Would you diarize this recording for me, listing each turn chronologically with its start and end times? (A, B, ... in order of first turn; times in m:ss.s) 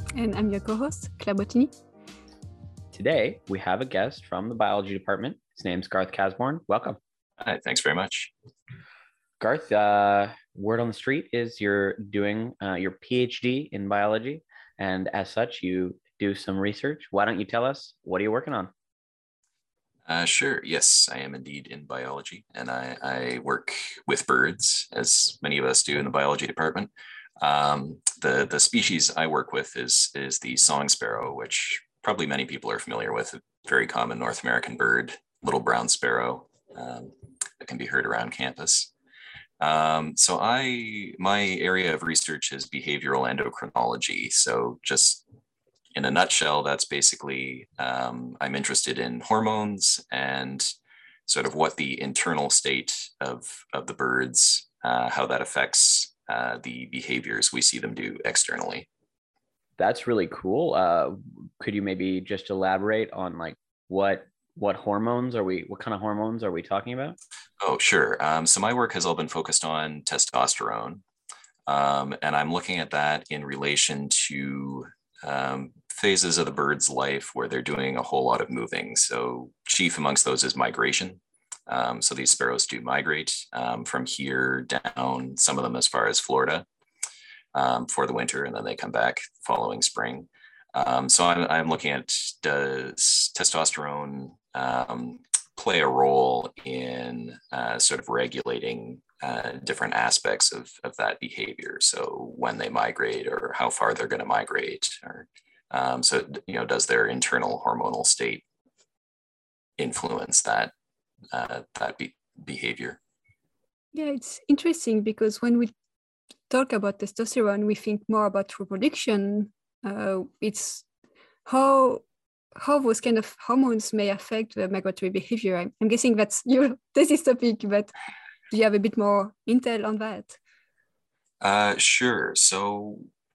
0:00.2-0:01.7 A
0:02.9-0:07.0 B
0:07.4-0:08.3 C
0:09.4-0:18.7 B
0:20.1-0:26.9 C
0:27.4-0:38.9 C
0:39.6-0:45.2 C
0:46.0-0:50.7 C
0:51.3-0:58.9 C
0:59.8-1:07.2 B
1:07.6-1:11.0 C
1:11.7-1:26.7 C
1:27.5-1:48.4 C
1:49.8-1:50.7 C
1:51.3-1:53.0 C
1:53.9-1:55.7 A
1:56.5-2:00.9 A
2:01.5-2:02.0 A
2:02.6-2:07.9 A
2:08.5-2:10.4 A
2:11.4-2:13.1 C